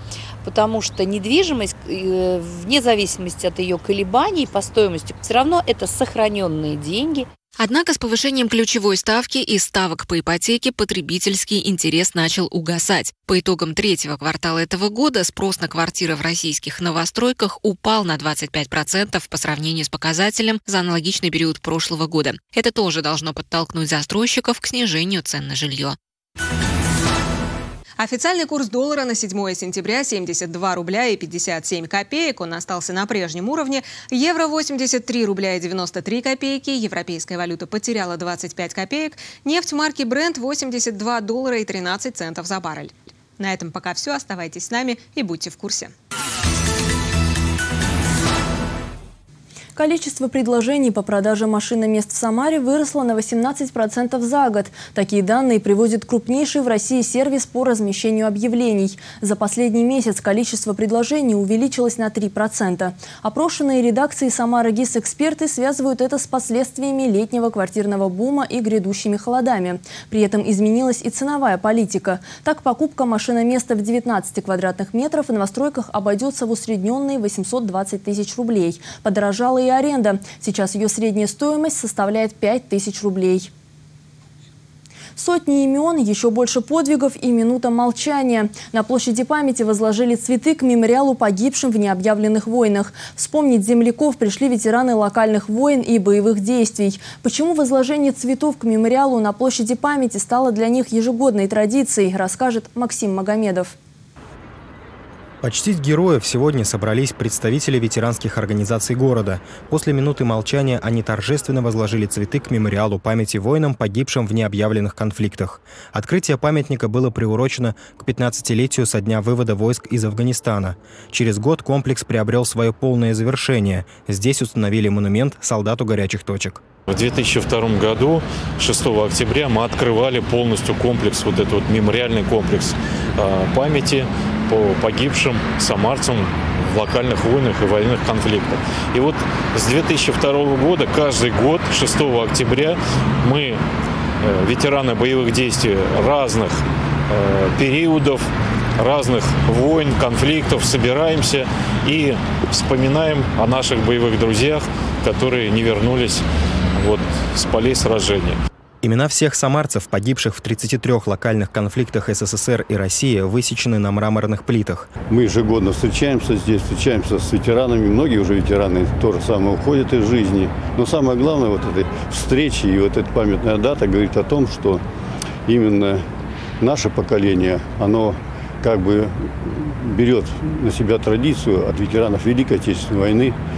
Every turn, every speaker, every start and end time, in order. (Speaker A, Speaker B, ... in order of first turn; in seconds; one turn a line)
Speaker A: 0.4-7.3
Speaker B: 7.6-26.0
Speaker C: 28.0-45.9
Speaker D: 49.8-83.5
Speaker D: 85.2-103.8
Speaker E: 105.4-126.6
Speaker F: 126.9-143.6
Speaker F: 144.2-156.2
Speaker F: 156.8-158.4
Speaker E: 158.8-164.9
Speaker G: 165.1-174.8
Speaker G: 175.5-176.1
Speaker G: 176.6-183.4